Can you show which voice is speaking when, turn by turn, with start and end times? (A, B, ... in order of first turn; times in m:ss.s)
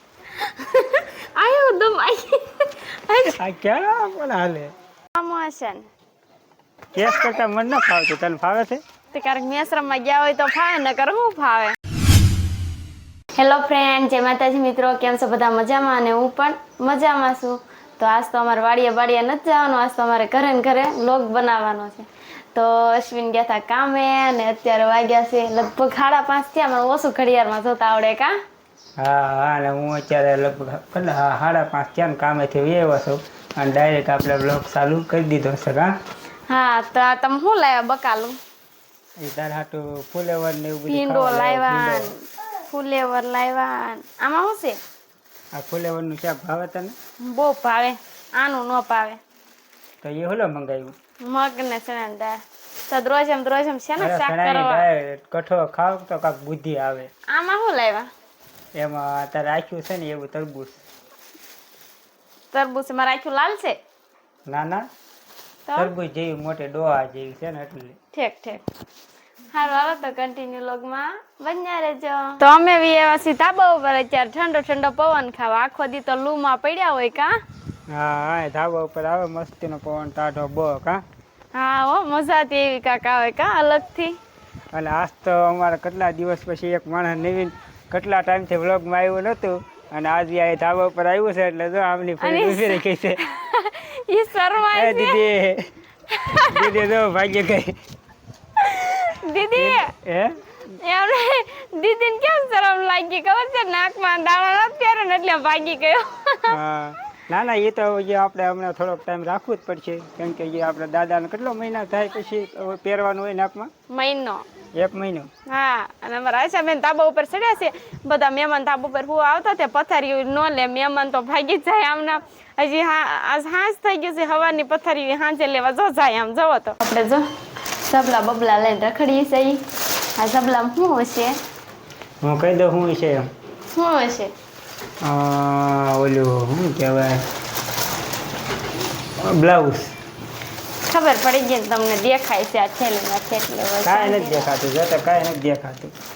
0:00.3-0:03.4 A
0:03.2-0:04.7 B
0:05.2-0:05.8 A
0:06.9-0:08.8 B
0:09.1-0:11.7 A
0:13.3-0:28.3 A
0:29.0-0:35.9 B
0:36.5-0:38.4 A
0:39.2-0:42.1 B
0:40.9-0:44.8 A
0:45.5-0:46.9 B
0:47.2-0:49.2 A
0:50.0-0:50.9 B
0:51.2-0:54.8 A
0:54.0-0:57.1 B
0:57.3-0:58.1 A
0:58.7-1:00.8 B
1:02.5-1:03.8 A
1:04.5-1:04.8 B
1:05.7-1:05.9 A
1:05.7-1:08.0 B
1:08.1-1:08.6 A
1:09.5-1:17.3 A
1:17.9-1:21.0 B
1:21.5-1:24.2 A
1:24.7-1:33.2 B
1:32.2-1:35.2 A
1:34.7-1:35.7 B
1:36.1-1:36.6 A
1:36.4-1:37.8 B
1:38.6-1:39.9 A
1:39.5-1:40.4 B
1:40.8-1:46.5 A
1:46.5-1:53.7 B
1:53.9-1:54.4 A
1:54.8-1:55.3 B
1:55.5-2:07.3 A
2:07.8-2:09.6 A
2:10.2-2:11.4 A
2:12.2-2:13.3 B
2:13.7-2:14.3 A
2:15.0-2:17.2 B
2:19.2-2:19.9 B
2:20.8-2:24.5 A
2:23.8-2:25.9 B